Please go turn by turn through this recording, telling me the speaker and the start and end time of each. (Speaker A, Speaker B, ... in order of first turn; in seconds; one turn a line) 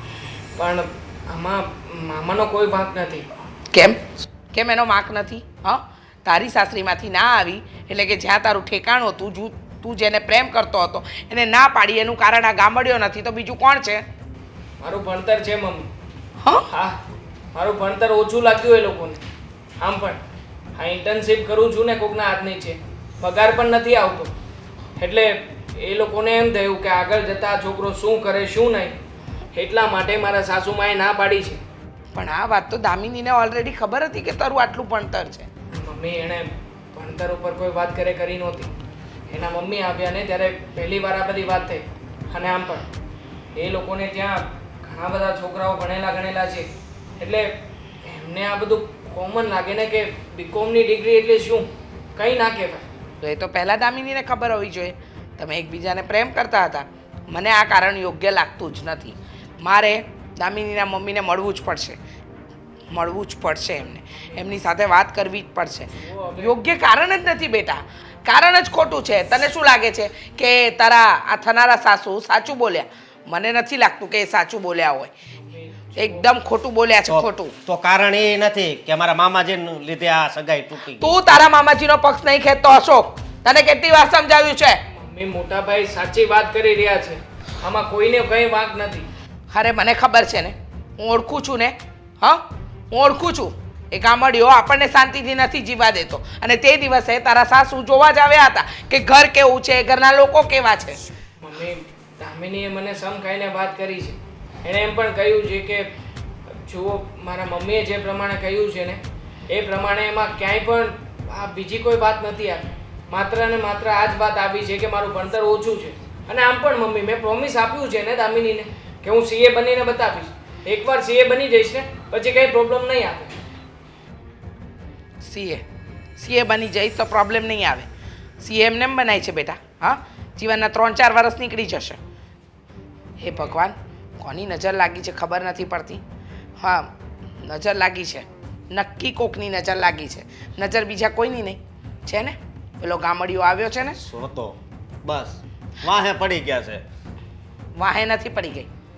Speaker A: 0.6-3.3
Speaker B: 3.7-4.0
Speaker B: 4.5-14.0
Speaker A: 14.8-15.9
Speaker A: 16.7-17.0
Speaker A: 17.5-19.2
Speaker A: 19.8-20.2
Speaker A: 20.7-24.3
Speaker A: 25.0-29.0
Speaker A: 29.5-31.6
Speaker B: 32.1-35.5
Speaker A: 35.7-38.7
Speaker A: 39.3-42.9
Speaker A: 43.5-47.5
Speaker A: 48.0-52.8
Speaker B: 53.2-62.0
Speaker B: 62.9-75.1
Speaker A: 66.0-66.6
Speaker A: 75.5-76.3
Speaker B: 76.0-77.5
Speaker C: 77.1-81.2
Speaker B: 81.0-84.8
Speaker A: 84.9-89.1
Speaker B: 89.5-101.0
Speaker A: 101.4-105.9
Speaker A: 106.7-123.3
Speaker B: 125.2-125.6
Speaker B: 126.2-127.9
Speaker B: 128.4-132.0
Speaker B: 133.2-136.0
Speaker B: 136.6-136.9
Speaker B: 137.4-144.0
Speaker C: 144.0-146.8
Speaker B: 147.8-148.7